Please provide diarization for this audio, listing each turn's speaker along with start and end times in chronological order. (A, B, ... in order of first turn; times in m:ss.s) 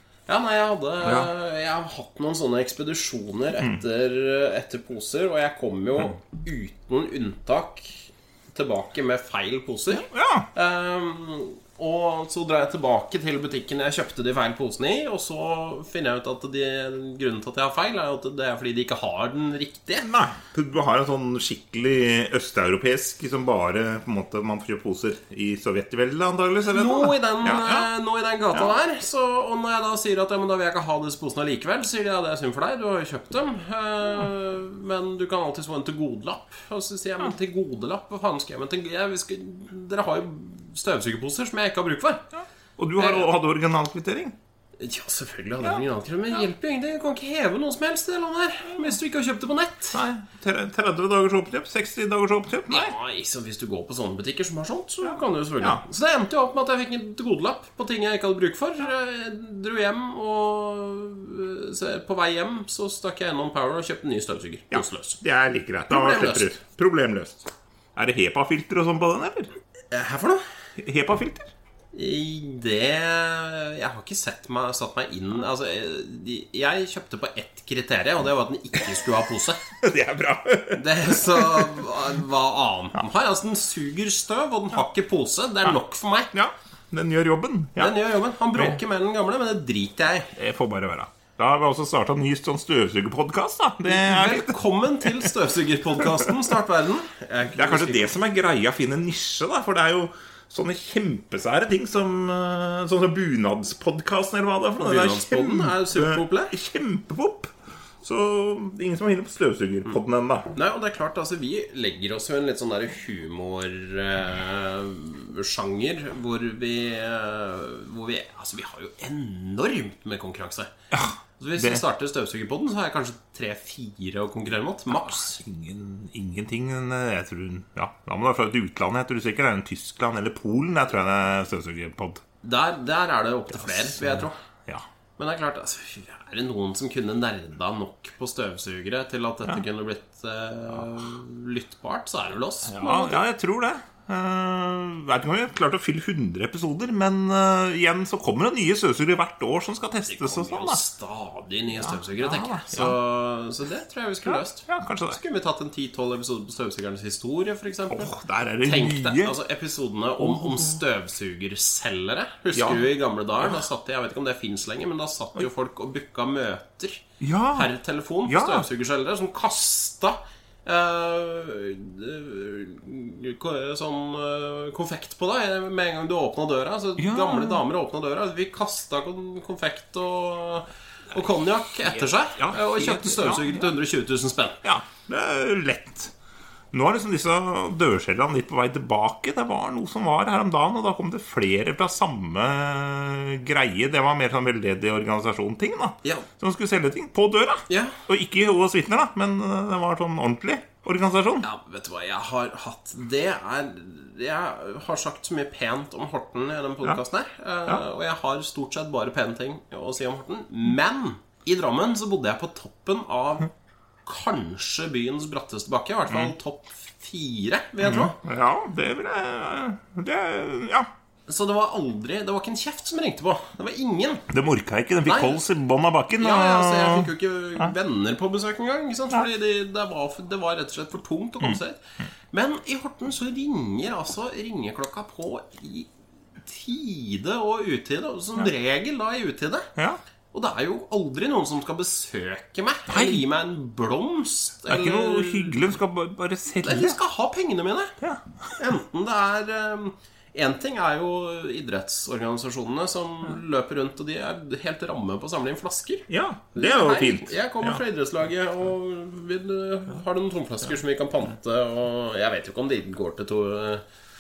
0:00.3-0:20.1 A
0:01.0-0:01.3 B
0:09.9-0:10.5 B
0:20.0-0:27.9 B
0:26.7-0:42.2 A
0:42.4-0:44.4 B
0:43.0-0:43.3 A
0:44.8-0:50.0 A
0:49.9-0:52.9 B
0:52.7-1:05.2 A
0:55.0-0:55.8 B
1:04.7-1:09.5 B
1:05.9-1:06.5 A
1:09.9-1:10.4 A
1:10.8-1:11.5 B
1:11.9-1:19.6 A
1:19.8-1:21.8 B
1:20.8-1:26.3 A
1:26.3-1:28.0 B
1:27.8-1:30.3 A
1:28.5-1:28.8 B
1:30.4-1:35.3 B
1:33.9-1:38.1 A
1:36.0-1:36.3 B
1:37.6-1:50.5 B
1:44.8-1:46.5 A
1:50.5-2:00.7 A
2:00.9-2:01.8 B
2:01.4-2:05.4 A
2:04.9-2:12.2 B
2:12.4-2:14.3 A
2:13.5-2:14.8 B
2:15.2-2:23.2 A
2:22.7-2:30.8 B
2:30.1-2:38.1 A
2:31.8-2:33.0 B
2:34.2-2:35.2 B
2:37.9-2:39.4 B
2:38.6-3:04.6 A
2:40.2-2:40.8 B
2:42.5-2:42.9 B
2:47.2-2:47.7 B
2:48.3-2:48.7 B
2:57.0-2:57.6 B
3:02.4-3:03.7 B
3:04.6-3:06.1 B
3:06.7-3:21.5 B
3:17.7-3:18.0 A
3:21.4-3:33.5 A
3:34.1-3:38.2 A
3:36.1-3:36.3 B
3:37.8-3:40.9 B
3:41.3-3:44.3 A
3:44.3-3:47.7 B
3:45.1-3:45.4 A
3:46.2-3:51.8 A
3:52.3-3:55.9 A
3:56.4-3:59.7 A
4:00.3-4:05.7 A
4:02.9-4:03.2 B
4:04.7-4:07.0 B
4:06.6-4:08.0 A
4:08.0-4:08.6 B
4:08.6-4:23.8 A
4:16.1-4:17.8 B